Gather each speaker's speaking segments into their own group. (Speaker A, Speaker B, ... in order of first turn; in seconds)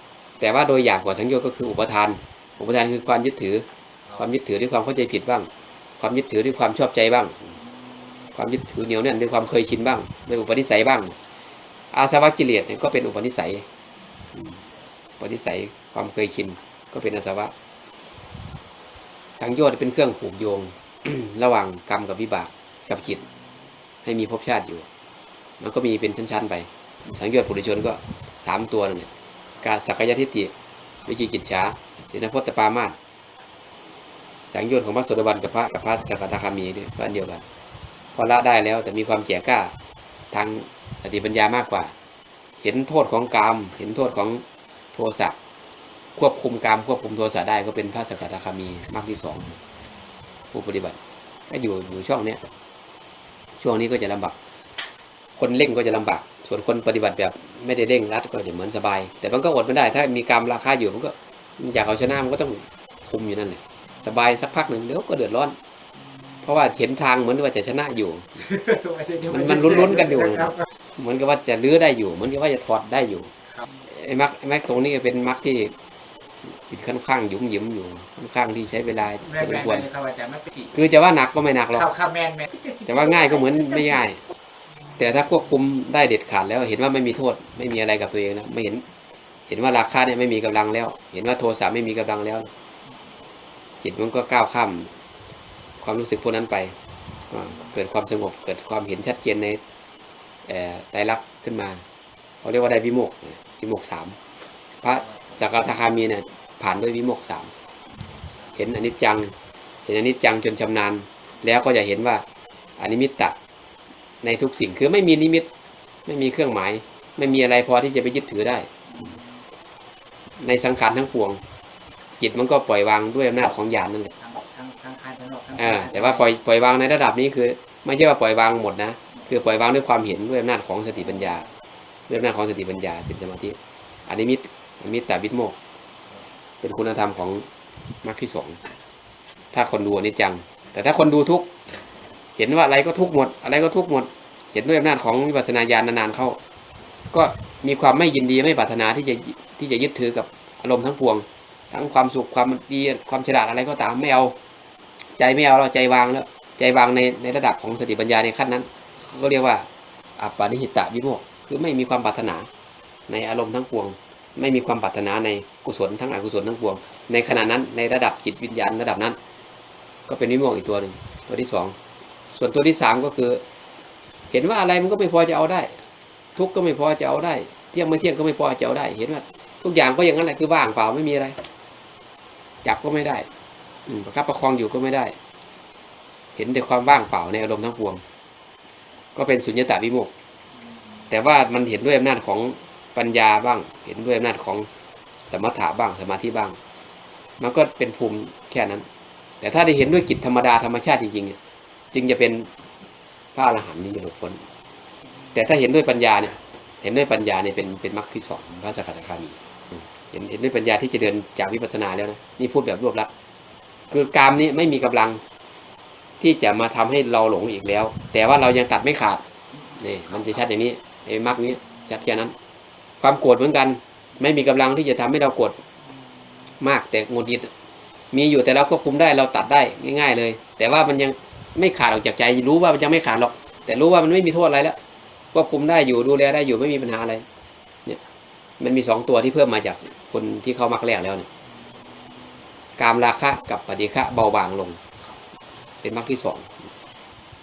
Speaker A: 0.4-3.7, 4.2-7.5, 8.3-11.2, 11.9-13.7, 15.2-17.5, 19.4-23.2, 24.1-24.9, 25.6-29.1, 29.6-30.5, 31.1-33.0, 34.5-37.4, 38.1-39.7, 40.3-41.9, 42.6-45.4, 46.2-49.6, 50.5-52.4, 53.6-54.4, 55.4-65.6, 66.4-68.5, 69.2-73.3, 73.8-75.7, 76.5-79.9, 80.7-81.9, 82.9-84.2, 85.0-88.8, 89.5-92.5, 93.8-94.9, 95.8-96.8, 97.3-99.6, 100.5-101.8, 102.4-104.2, 104.8-107.5, 108.6-109.3, 109.9-112.2, 112.8-113.4, 114.2-115.5, 116.1-118.7, 120.4-121.4, 122.2-124.1, 125.6-131.5, 132.1-135.6, 136.6-137.5, 138.0-138.6, 139.5-141.5, 142.4-146.4, 147.1-154.4, 155.2-162.5, 163.1-169.2, 170.1-171.8, 172.3-173.4, 174.3-175.8, 176.4-181.4, 182.6-183.3, 183.9-185.1, 186.4-188.0, 189.2-190.1, 191.1-194.7, 195.3-196.6, 197.4-198.8, 199.4-201.4, 201.9-202.5, 203.3-204.4, 205.3-213.1, 213.9-215.2, 216.2-219.2, 219.8-222.3, 223.0-225.6, 226.6-227.5, 228.1-234.8, 235.3-237.2, 238.6-241.3, 242.8-244.8, 245.8-246.5
Speaker B: 68.5-70.2, 79.2-80.7, 81.7-83.3, 104.9-105.6, 108.0-108.6, 118.9-119.4, 124.2-126.3, 190.7-191.1, 219.7-220.4